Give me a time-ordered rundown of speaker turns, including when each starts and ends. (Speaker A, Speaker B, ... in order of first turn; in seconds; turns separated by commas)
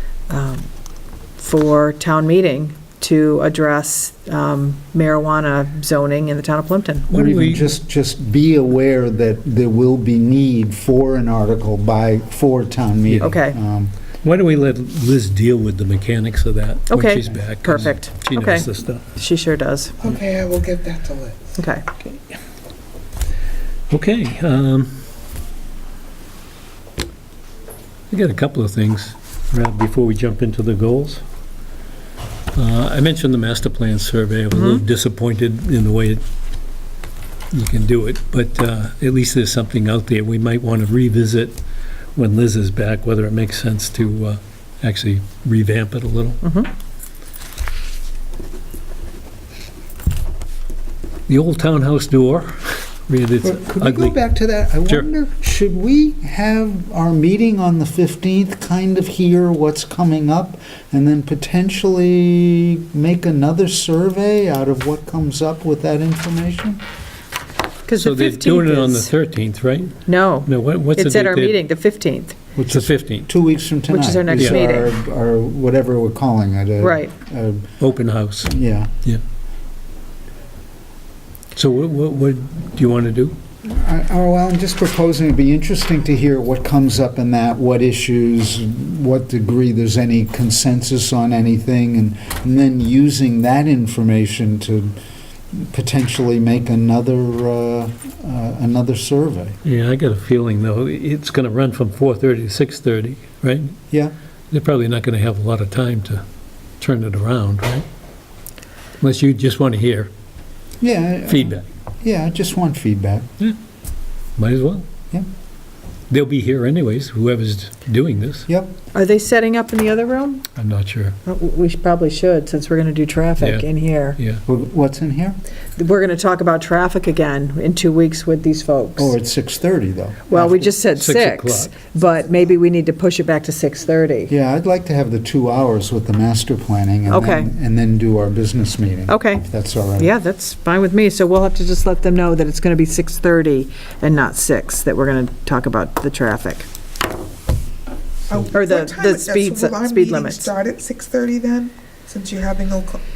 Speaker A: 0.3-0.7, Speaker A: 1.4-7.1, Speaker B: 7.1-7.7, Speaker C: 7.1-13.9, Speaker A: 13.2-13.6, Speaker B: 14.2-19.0, Speaker A: 16.9-20.0, Speaker D: 20.0-21.5, Speaker A: 21.6-21.9, Speaker B: 23.9-25.1, Speaker B: 28.1-31.2, Speaker B: 32.5-36.2, Speaker A: 34.5-34.8, Speaker B: 37.5-41.6, Speaker B: 42.1-46.4, Speaker A: 46.4-46.7, Speaker B: 51.3-54.2, Speaker C: 53.4-66.8, Speaker A: 67.9-69.1, Speaker B: 67.9-71.6, Speaker A: 70.1-72.4, Speaker C: 72.6-77.7, Speaker B: 72.7-73.3, Speaker A: 73.9-74.9, Speaker A: 76.8-77.1, Speaker B: 77.8-79.2, Speaker C: 78.5-78.9, Speaker B: 81.5-83.4, Speaker C: 83.6-95.0, Speaker C: 95.5-99.6, Speaker B: 99.6-103.8, Speaker B: 104.5-106.2, Speaker B: 106.8-107.9, Speaker B: 109.0-110.1, Speaker C: 110.8-113.3, Speaker B: 111.3-111.7, Speaker B: 114.4-114.9, Speaker B: 116.1-118.5, Speaker C: 118.5-118.7, Speaker A: 118.9-120.5, Speaker B: 120.6-121.2, Speaker A: 121.2-124.2, Speaker B: 123.4-123.7, Speaker B: 124.2-124.4, Speaker C: 124.5-125.4, Speaker A: 125.8-129.1, Speaker C: 129.0-130.7, Speaker A: 130.3-134.3, Speaker B: 130.9-131.7, Speaker C: 134.3-140.1, Speaker A: 137.1-137.5, Speaker A: 139.1-146.7, Speaker D: 148.3-153.0, Speaker A: 148.5-150.5